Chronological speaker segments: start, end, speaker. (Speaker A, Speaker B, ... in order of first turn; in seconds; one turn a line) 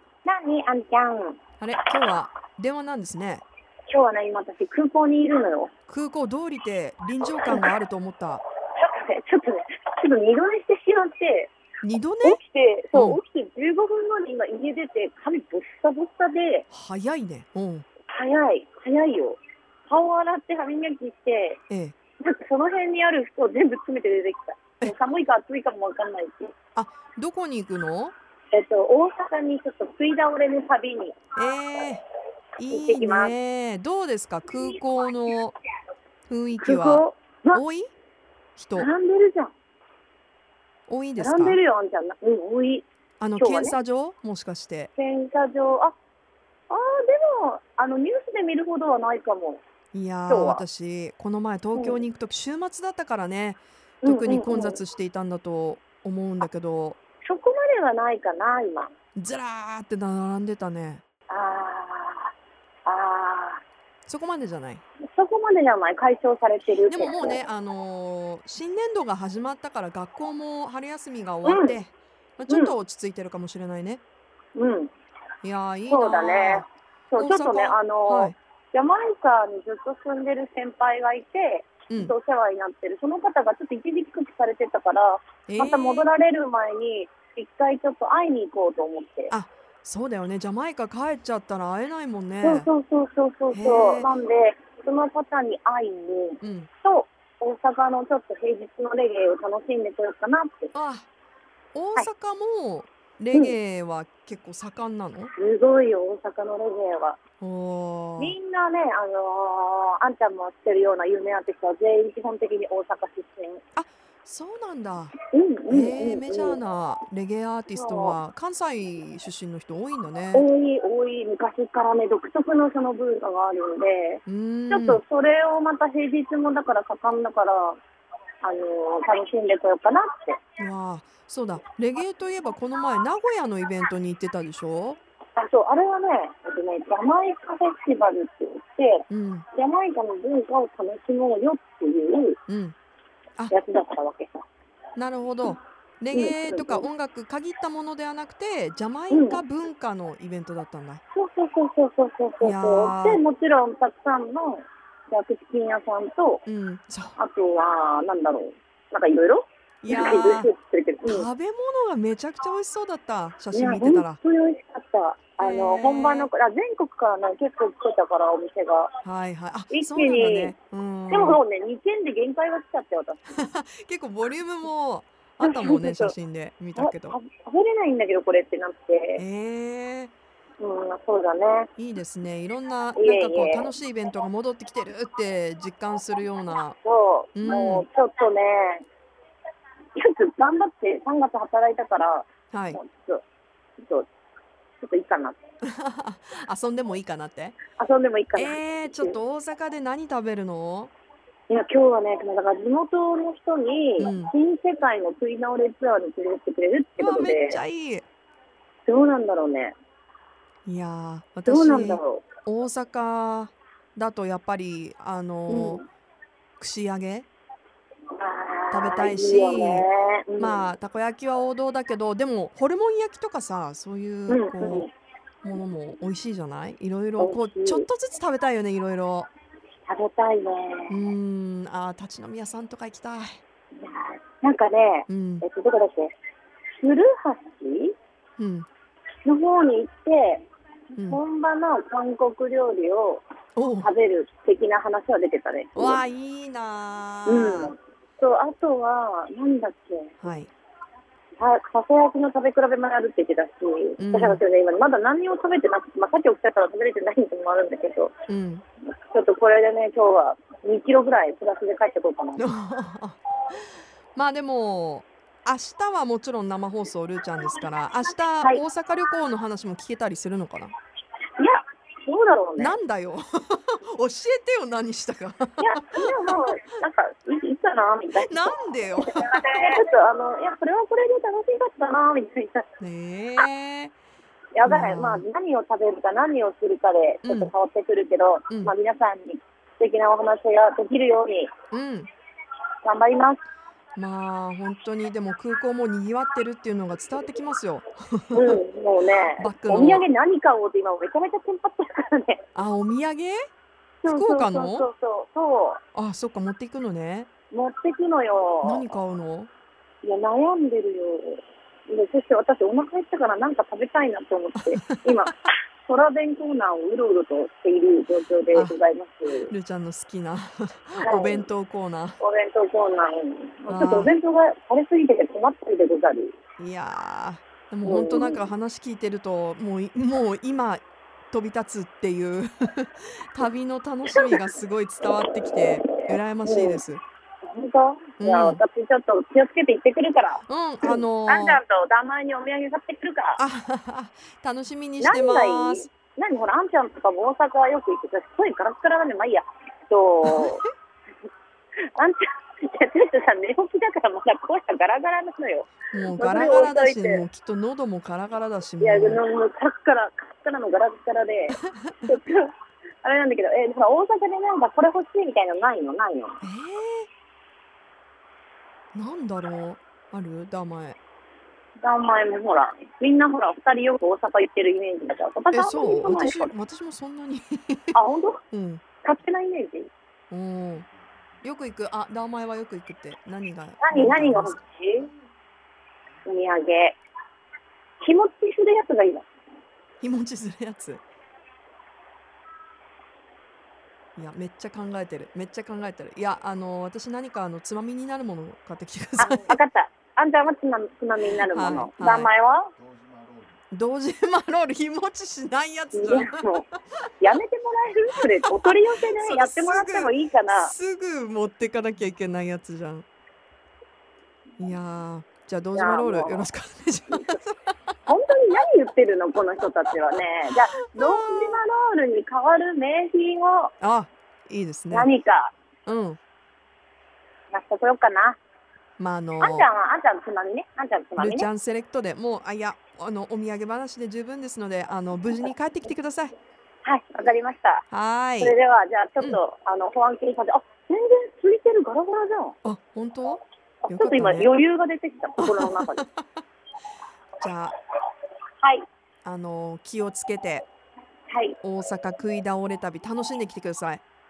Speaker A: 0.2-1.4
Speaker B: 1.6-3.4
Speaker A: 3.9-5.7
Speaker B: 5.9-8.4
Speaker A: 8.8-11.5
Speaker B: 11.8-12.4
Speaker A: 12.2-16.7
Speaker B: 12.9-13.2
Speaker B: 16.7-17.9
Speaker A: 18.1-21.6
Speaker B: 21.7-21.9
Speaker A: 22.2-26.5
Speaker B: 26.8-28.1
Speaker A: 28.5-31.2
Speaker B: 31.4-32.0
Speaker B: 32.6-35.5
Speaker A: 32.7-33.3
Speaker B: 36.3-37.9
Speaker A: 36.6-37.6
Speaker B: 38.6-38.9
Speaker A: 38.8-39.5
Speaker B: 40.9-41.6
Speaker A: 41.2-42.9
Speaker B: 43.2-44.9
Speaker A: 43.4-43.8
Speaker A: 45.0-46.0
Speaker A: 46.7-49.6
Speaker B: 49.9-57.0
Speaker A: 50.3-50.6
Speaker A: 51.8-52.0
Speaker A: 54.0-54.8
Speaker A: 57.2-58.9
Speaker B: 59.1-61.0
Speaker A: 61.3-62.3
Speaker A: 62.9-63.6
Speaker B: 64.1-64.8
Speaker A: 65.1-67.4
Speaker B: 66.7-74.0
Speaker A: 71.5-71.8
Speaker A: 72.5-72.8
Speaker A: 74.6-74.9
Speaker B: 75.4-78.4
Speaker A: 75.9-89.3
Speaker B: 85.5-86.1
Speaker B: 89.3-92.7
Speaker A: 92.4-100.7
Speaker B: 93.5-94.1
Speaker B: 96.4-96.7
Speaker B: 100.7-101.1
Speaker B: 101.7-105.3
Speaker A: 105.3-107.2
Speaker B: 107.4-108.4
Speaker A: 108.2-113.6
Speaker B: 113.8-115.1
Speaker A: 115.3-116.6
Speaker B: 115.7-120.5
Speaker A: 117.7-118.2
Speaker A: 120.3-127.8
Speaker B: 124.3-125.0
Speaker A: 128.4-130.4
Speaker B: 130.6-135.0
Speaker A: 135.4-142.4
Speaker B: 139.1-139.4
Speaker B: 142.5-142.8
Speaker A: 143.5-144.4
Speaker B: 145.0-151.0
Speaker A: 146.1-146.9
Speaker A: 149.1-149.4
Speaker A: 151.1-156.4
Speaker B: 152.4-153.2
Speaker B: 156.5-157.2
Speaker A: 157.2-161.3
Speaker B: 159.8-160.5
Speaker B: 161.1-164.2
Speaker A: 163.5-168.9
Speaker B: 165.4-166.3
Speaker B: 169.0-171.4
Speaker A: 169.7-170.6
Speaker A: 171.1-173.2
Speaker B: 173.3-177.2
Speaker A: 175.4-176.1
Speaker A: 176.8-179.2
Speaker B: 179.2-180.1
Speaker A: 180.6-181.7
Speaker B: 181.8-186.8
Speaker A: 183.0-183.7
Speaker A: 186.8-188.8
Speaker B: 187.3-187.8
Speaker A: 190.0-193.2
Speaker B: 192.5-192.8
Speaker A: 193.8-194.1
Speaker A: 194.8-195.4
Speaker B: 195.6-197.6
Speaker A: 197.8-199.2
Speaker B: 198.3-200.9
Speaker A: 201.5-207.6
Speaker B: 204.0-204.3
Speaker B: 207.0-208.1
Speaker A: 208.9-209.8
Speaker B: 210.7-215.8
Speaker A: 211.5-212.2
Speaker A: 215.5-215.8
Speaker B: 216.6-217.3
Speaker A: 218.2-220.7
Speaker B: 218.7-219.9
Speaker B: 220.4-224.9
Speaker A: 224.3-224.9
Speaker B: 225.4-229.3
Speaker A: 227.2-227.9
Speaker A: 229.9-230.9
Speaker B: 230.9-233.4
Speaker A: 233.8-236.2
Speaker B: 235.1-235.4
Speaker A: 236.8-237.9
Speaker B: 238.4-238.7
Speaker A: 239.2-240.5
Speaker B: 240.9-241.2
Speaker A: 241.1-243.2
Speaker B: 243.6-243.9
Speaker A: 243.8-246.0
Speaker B: 245.8-247.7
Speaker A: 247.3-250.2
Speaker B: 250.2-250.5
Speaker A: 251.4-258.1
Speaker B: 254.0-254.4
Speaker B: 258.3-258.6
Speaker A: 259.1-262.4
Speaker B: 262.4-270.7
Speaker A: 271.4-272.8
Speaker B: 272.6-276.3
Speaker A: 275.6-282.7
Speaker B: 278.1-279.3
Speaker B: 282.8-283.9
Speaker A: 284.6-291.5
Speaker B: 284.7-285.3
Speaker B: 287.2-287.5
Speaker B: 291.7-292.1
Speaker A: 292.8-293.4
Speaker B: 294.0-298.6
Speaker A: 298.3-302.4
Speaker B: 299.4-300.1
Speaker B: 302.6-303.4
Speaker A: 304.0-305.8
Speaker B: 304.1-304.9
Speaker B: 305.9-307.3
Speaker A: 307.5-308.8
Speaker B: 308.6-309.5
Speaker A: 310.0-315.3
Speaker B: 314.7-315.1
Speaker A: 315.9-319.5
Speaker B: 319.5-322.2
Speaker A: 321.1-321.4
Speaker A: 322.2-326.4
Speaker B: 323.7-324.1
Speaker B: 326.6-337.0
Speaker A: 327.8-328.4
Speaker A: 336.4-336.8
Speaker A: 337.4-343.4
Speaker B: 338.2-338.6
Speaker B: 340.5-341.6
Speaker B: 343.4-345.9
Speaker A: 345.0-350.6
Speaker B: 350.2-350.6
Speaker A: 352.0-357.2
Speaker B: 355.9-359.2
Speaker A: 358.8-362.5
Speaker B: 361.7-362.0
Speaker A: 363.0-366.4
Speaker B: 366.4-367.1
Speaker B: 368.9-371.0
Speaker A: 371.8-376.5
Speaker B: 375.5-377.9
Speaker A: 377.9-378.4
Speaker B: 378.5-378.8
Speaker A: 379.0-379.9
Speaker B: 380.3-380.9
Speaker B: 381.4-384.6
Speaker A: 383.8-385.1
Speaker A: 386.2-387.0
Speaker A: 388.0-389.3
Speaker B: 390.0-391.0
Speaker B: 394.2-399.6
Speaker A: 399.2-402.8
Speaker B: 401.5-402.3
Speaker B: 403.7-406.4
Speaker A: 405.9-406.7
Speaker A: 407.2-410.7
Speaker B: 409.2-413.1
Speaker B: 414.6-417.8
Speaker A: 415.8-416.4
Speaker A: 418.1-423.7
Speaker B: 420.9-421.6
Speaker B: 423.8-425.1
Speaker A: 424.9-425.5
Speaker B: 425.9-426.2
Speaker A: 427.5-428.4
Speaker B: 429.0-429.7
Speaker A: 429.4-431.5
Speaker B: 431.2-436.3
Speaker A: 436.9-437.9
Speaker B: 437.9-438.5
Speaker A: 438.4-442.6
Speaker B: 442.6-444.5
Speaker A: 443.8-446.0
Speaker B: 445.4-446.2
Speaker B: 447.4-447.8
Speaker B: 449.2-450.7
Speaker A: 451.3-451.6
Speaker B: 451.6-454.0